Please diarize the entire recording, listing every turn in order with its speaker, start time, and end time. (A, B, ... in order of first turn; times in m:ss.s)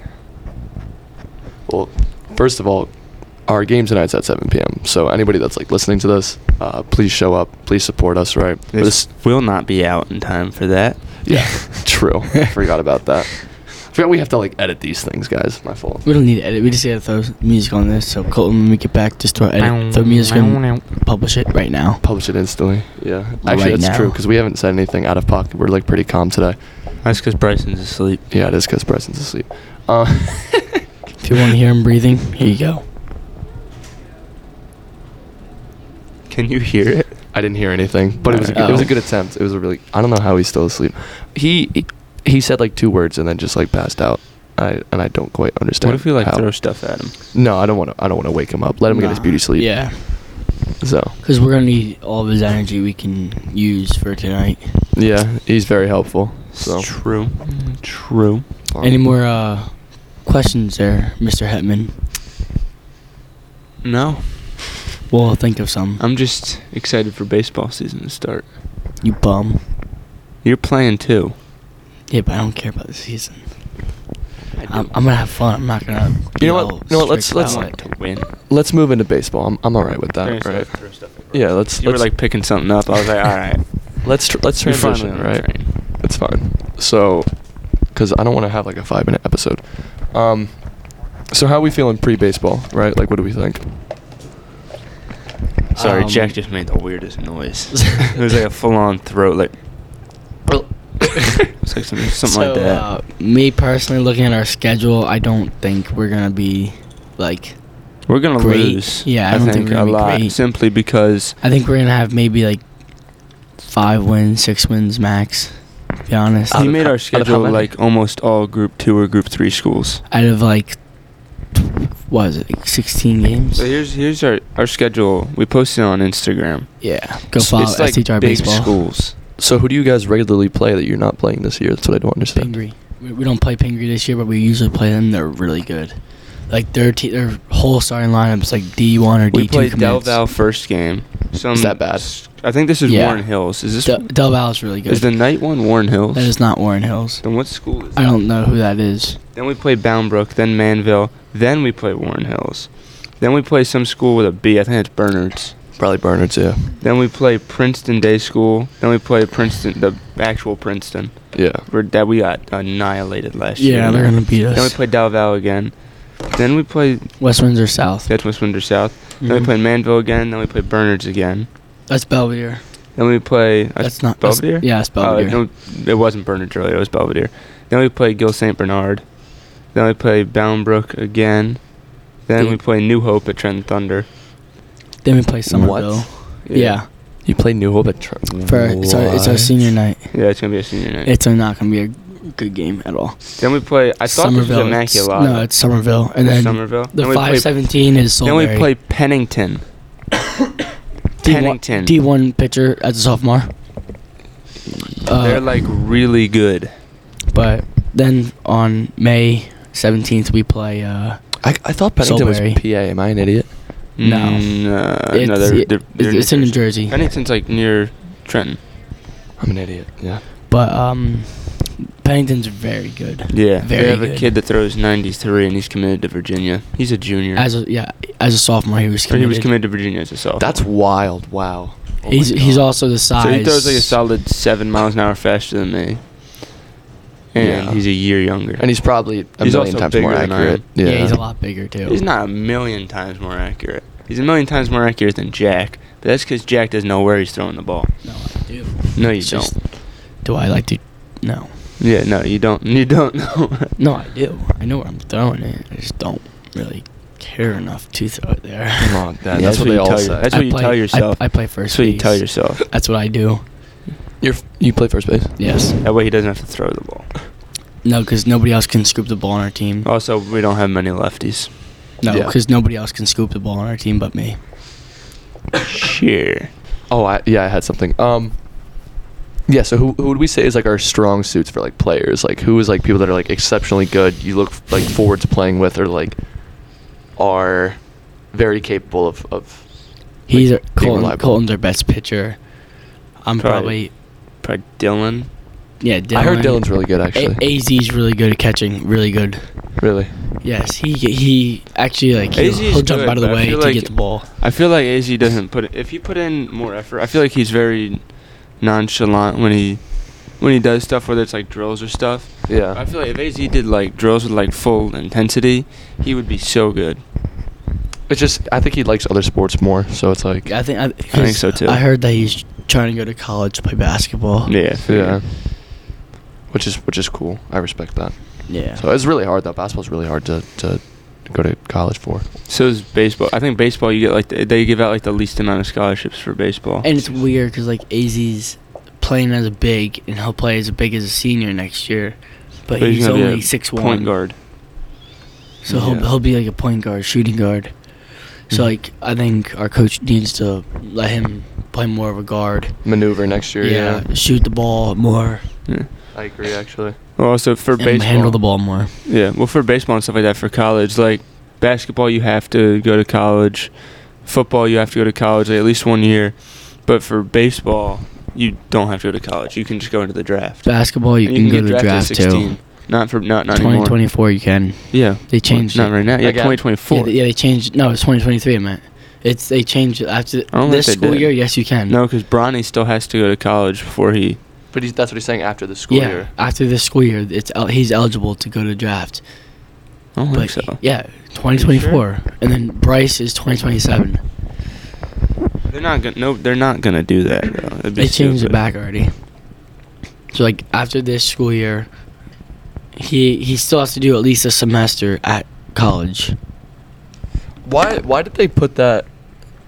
0:01.7-0:09.1 A
0:08.7-0:11.4 B
0:11.2-0:16.0 A
0:11.3-0:12.2 C
0:16.0-0:22.0 C
0:19.6-0:20.8 B
0:22.0-0:26.6 A
0:23.4-0:24.2 C
0:27.0-0:28.2 B
0:28.3-0:30.8 A
0:31.2-0:32.8 C
0:36.3-0:37.4 B
0:37.3-0:50.2 A
0:38.2-0:38.9 B
0:38.6-0:38.9 C
0:45.8-0:47.2 B
0:48.9-0:50.5 C
0:50.8-0:51.2 A
0:51.2-0:54.8 C
0:54.9-0:56.9 A
0:56.5-0:58.4 B
0:58.7-0:59.1 A
0:58.8-1:02.0 C
1:03.8-1:04.7 B
1:05.1-1:06.0 C
1:06.0-1:08.5 B
1:09.0-1:09.6 C
1:10.4-1:11.4 B
1:12.1-1:14.0 C
1:14.6-1:15.3 B
1:14.7-1:17.7 C
1:16.4-1:22.7 A
1:17.4-1:18.3 B
1:20.2-1:25.7 B
1:24.0-1:33.8 A
1:35.8-1:36.4 C
1:35.8-1:39.6 B
1:40.4-1:41.4 A
1:41.5-1:42.8 B
1:42.2-1:50.4 C
1:48.1-1:51.4 B
1:51.4-1:52.6 C
1:53.6-1:56.7 C
1:56.5-1:57.7 A
1:56.5-2:00.0 B
2:00.1-2:03.6 C
2:03.6-2:09.2 B
2:06.8-2:08.8 C
2:09.4-2:12.5 A
2:12.4-2:20.2 C
2:19.3-2:24.2 B
2:21.5-2:22.1 A
2:22.9-2:25.1 C
2:24.9-2:26.3 B
2:26.1-2:27.3 C
2:27.2-2:28.0 B
2:27.9-2:29.2 C
2:29.4-2:35.6 B
2:35.8-2:36.7 A
2:36.8-2:47.2 B
2:41.3-2:41.6 A
2:43.6-2:44.8 C
2:47.2-2:48.1 C
2:48.1-2:51.5 B
2:49.2-2:49.5 C
2:51.9-2:52.6 C
2:53.0-3:04.1 B
2:53.8-2:55.4 C
3:05.0-3:06.9 C
3:05.5-3:06.2 A
3:06.4-3:06.8 B
3:07.2-3:09.7 A
3:08.4-3:10.5 C
3:10.1-3:11.1 B
3:11.0-3:13.5 C
3:13.4-3:15.6 B
3:14.1-3:18.7 C
3:16.2-3:19.6 B
3:21.2-3:23.6 C
3:21.2-3:21.9 B
3:25.0-3:25.5 C
3:25.2-3:26.7 B
3:27.3-3:31.4 C
3:31.4-3:33.6 A
3:32.0-3:32.6 C
3:34.0-3:38.6 B
3:34.0-3:37.0 C
3:39.4-3:40.2 A
3:40.5-3:44.3 C
3:43.3-3:47.5 B
3:47.4-3:49.5 C
3:49.1-3:50.6 B
3:50.4-3:52.7 A
3:52.1-3:54.0 C
3:53.2-3:56.0 B
3:57.3-4:00.6 B
3:57.4-3:57.9 A
3:58.6-4:01.2 A
4:00.8-4:02.0 C
4:01.8-4:08.1 B
4:08.0-4:11.6 C
4:08.9-4:09.6 B
4:11.8-4:13.7 B
4:13.8-4:23.4 C
4:18.8-4:20.3 A
4:19.3-4:22.6 B
4:24.2-4:25.5 A
4:25.4-4:25.8 C
4:25.8-4:27.2 B
4:27.8-4:29.9 C
4:29.8-4:31.5 B
4:32.0-4:34.4 C
4:32.1-4:32.4 A
4:35.6-4:36.5 B
4:36.9-4:38.8 A
4:39.5-4:51.4 A
4:50.3-4:52.7 C
4:53.2-4:53.9 C
4:53.4-4:55.3 B
4:55.8-4:59.7 C
4:56.1-4:57.4 A
4:59.8-5:00.2 A
5:00.4-5:04.3 C
5:02.3-5:17.0 B
5:12.5-5:12.8 A
5:18.1-5:20.5 A
5:20.5-5:24.5 C
5:21.1-5:21.8 B
5:24.5-5:25.2 B
5:24.9-5:25.8 A
5:26.5-5:32.3 A
5:28.5-5:28.8 C
5:32.5-5:36.9 B
5:36.8-5:44.1 C
5:42.8-5:44.4 B
5:45.6-5:52.9 C
5:45.7-5:46.1 A
5:52.8-5:54.1 A
5:53.6-5:55.6 C
5:56.1-5:57.0 A
5:57.2-6:14.2 B
5:57.8-5:59.0 C
6:10.6-6:12.9 C
6:13.5-6:16.1 C
6:14.9-6:17.1 B
6:16.2-6:16.6 A
6:16.9-6:22.0 C
6:20.5-6:24.4 B
6:24.7-6:26.3 A
6:25.9-6:29.2 C
6:30.2-6:30.8 B
6:30.3-6:34.2 C
6:31.5-6:32.0 B
6:35.7-6:38.6 B
6:38.0-6:39.2 C
6:40.3-6:41.9 C
6:43.0-6:46.4 C
6:47.6-6:49.1 A